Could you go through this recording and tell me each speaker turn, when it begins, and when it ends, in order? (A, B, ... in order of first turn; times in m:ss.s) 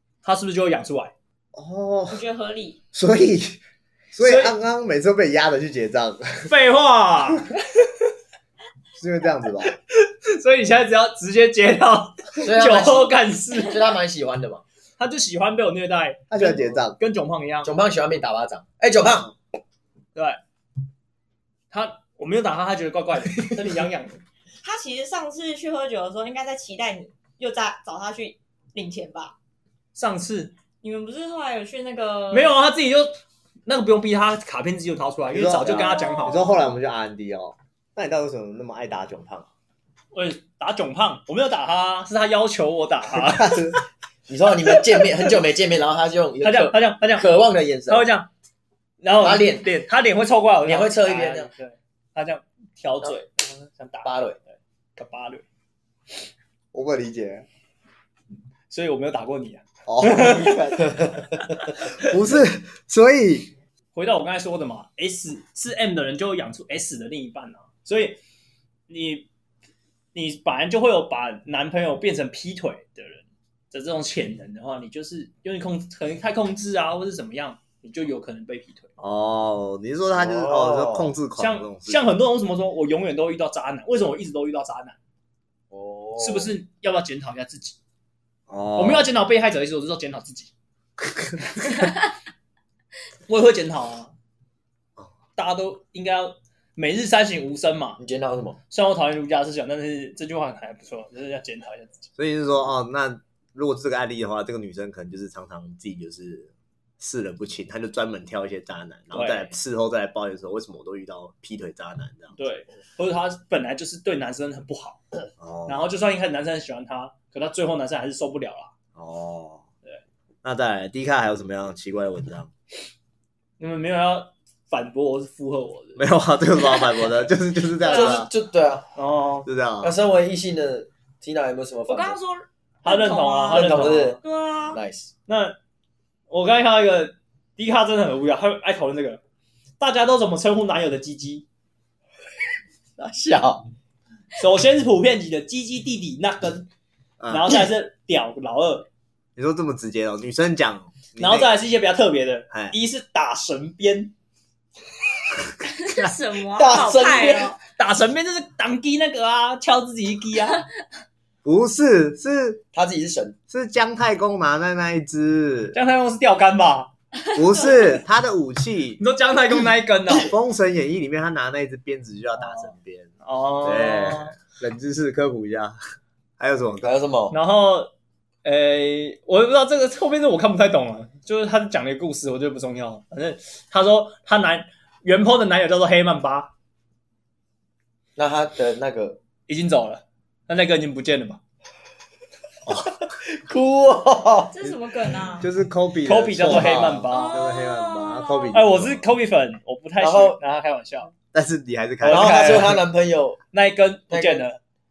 0:00.2-0:01.1 A
0:01.5-0:02.2 B
0:02.1-0:02.8 C
0:02.9-0:03.6 B
0:04.1-0:06.5 B
0:04.2-0:04.5 A
0:06.4-0:07.6 A
0:08.9-0:09.7 B
0:09.6-0:14.0 A
0:12.4-0:14.6 D
0:15.0-0:17.7 A
0:16.3-0:17.0 B
0:17.6-0:19.3 D
0:21.7-0:24.2 A
0:24.6-0:29.4 C
0:29.9-0:30.5 A
0:30.8-0:32.5 C
0:32.3-0:33.1 A
0:33.6-0:36.4 A
0:35.3-0:39.5 B
0:35.7-0:36.5 C
0:40.1-0:43.8 A
0:43.1-0:43.8 B
0:44.3-0:48.1 D
0:46.4-0:47.3 A
0:47.9-0:48.3 A
0:49.0-0:55.4 A
0:49.2-0:49.7 D
0:50.6-0:51.5 D
0:54.0-0:54.4 D
0:56.7-0:57.4 B
0:58.7-1:01.9 A
0:59.8-1:01.2 B
1:01.8-1:03.5 B
1:03.9-1:08.2 A
1:08.9-1:09.3 A
1:10.1-1:18.9 A
1:19.0-1:22.1 B
1:20.1-1:21.1 D
1:21.4-1:25.0 A
1:25.7-1:26.5 D
1:26.2-1:27.8 A
1:28.5-1:29.1 B
1:28.8-1:30.5 A
1:31.0-1:31.9 B
1:33.3-1:34.1 A
1:35.4-1:38.0 A
1:38.0-1:38.6 D
1:38.7-1:42.0 A
1:42.2-1:52.4 B
1:49.1-1:49.5 A
1:52.4-1:58.7 A
1:55.4-1:55.8 B
1:59.0-1:59.6 B
2:00.4-2:02.5 B
2:03.6-2:06.0 A
2:06.0-2:08.3 B
2:07.9-2:08.9 D
2:07.9-2:08.2 A
2:09.0-2:09.5 A
2:09.4-2:09.9 B
2:09.8-2:12.2 D
2:11.9-2:14.8 C
2:12.8-2:14.2 A
2:13.5-2:14.2 D
2:14.7-2:15.1 D
2:15.3-2:15.6 A
2:16.3-2:19.2 A
2:19.8-2:21.4 A
2:23.0-2:23.6 D
2:24.4-2:26.7 A
2:27.2-2:27.6 B
2:27.3-2:28.9 A
2:29.4-2:31.5 B
2:31.2-2:34.1 A
2:35.7-2:37.6 C
2:36.6-2:37.6 D
2:37.7-2:40.6 A
2:41.4-2:42.6 B
2:42.7-2:43.4 D
2:43.5-2:45.8 B
2:45.7-2:46.9 A
2:47.4-2:49.0 B
2:47.4-2:47.9 C
2:49.0-2:50.3 A
2:50.1-2:53.1 B
2:53.2-2:54.3 A
2:53.6-2:55.8 B
2:56.4-2:56.9 B
2:56.8-2:57.4 D
2:57.3-2:57.9 A
2:58.4-3:06.5 A
3:08.2-3:09.2 D
3:09.5-3:11.4 A
3:12.8-3:14.7 D
3:14.5-3:15.5 C
3:15.4-3:19.1 B
3:16.0-3:17.4 A
3:17.1-3:18.6 C
3:18.5-3:21.1 A
3:20.0-3:20.4 D
3:21.3-3:22.8 B
3:22.0-3:22.8 A
3:22.1-3:23.4 D
3:23.5-3:24.6 A
3:24.1-3:24.5 D